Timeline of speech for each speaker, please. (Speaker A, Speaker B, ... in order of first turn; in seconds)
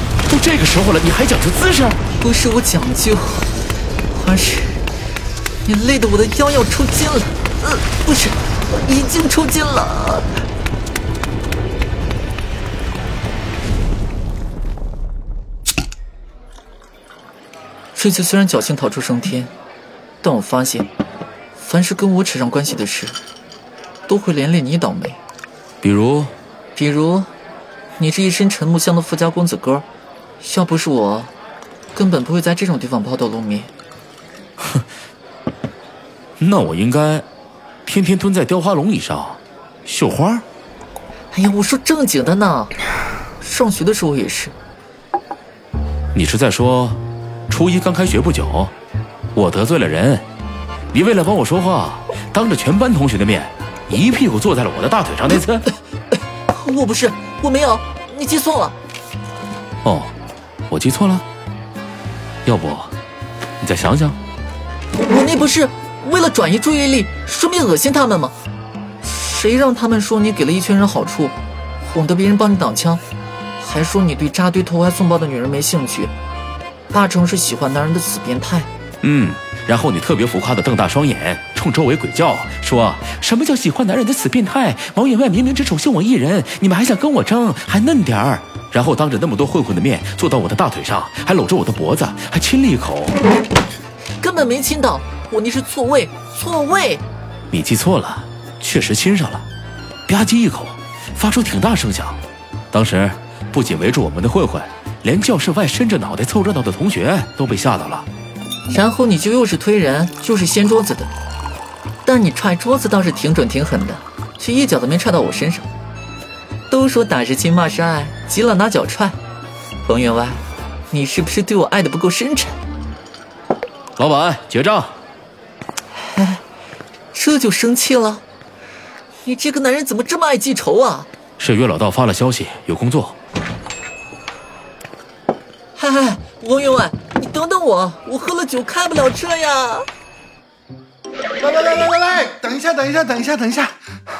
Speaker A: 0.3-2.0, 25.8-26.3, 36.4-37.3, 37.9-40.5, 46.1-48.7, 49.4-50.2, 50.9-55.7, 59.8-60.1, 60.7-61.2, 62.5-62.9, 63.6-64.2, 79.0-93.2, 97.5-99.5, 100.1-102.2, 102.7-108.1, 124.0-124.9, 131.4-133.2
Speaker B: 2.2-3.5, 4.1-4.8, 5.7-10.3, 17.9-19.5, 20.2-20.9, 21.6-23.2, 24.1-25.2, 26.8-27.3, 28.0-29.9, 30.4-31.3, 31.9-33.7, 41.3-42.7, 43.4-44.5, 56.5-58.8, 65.0-68.3, 69.0-73.0, 73.6-76.1, 76.9-78.7, 94.2-97.0, 108.7-111.1, 112.0-115.7, 116.7-119.2, 119.8-122.6, 126.0-126.4, 127.1-128.2, 129.2-131.1, 135.8-139.9
Speaker C: 141.4-143.8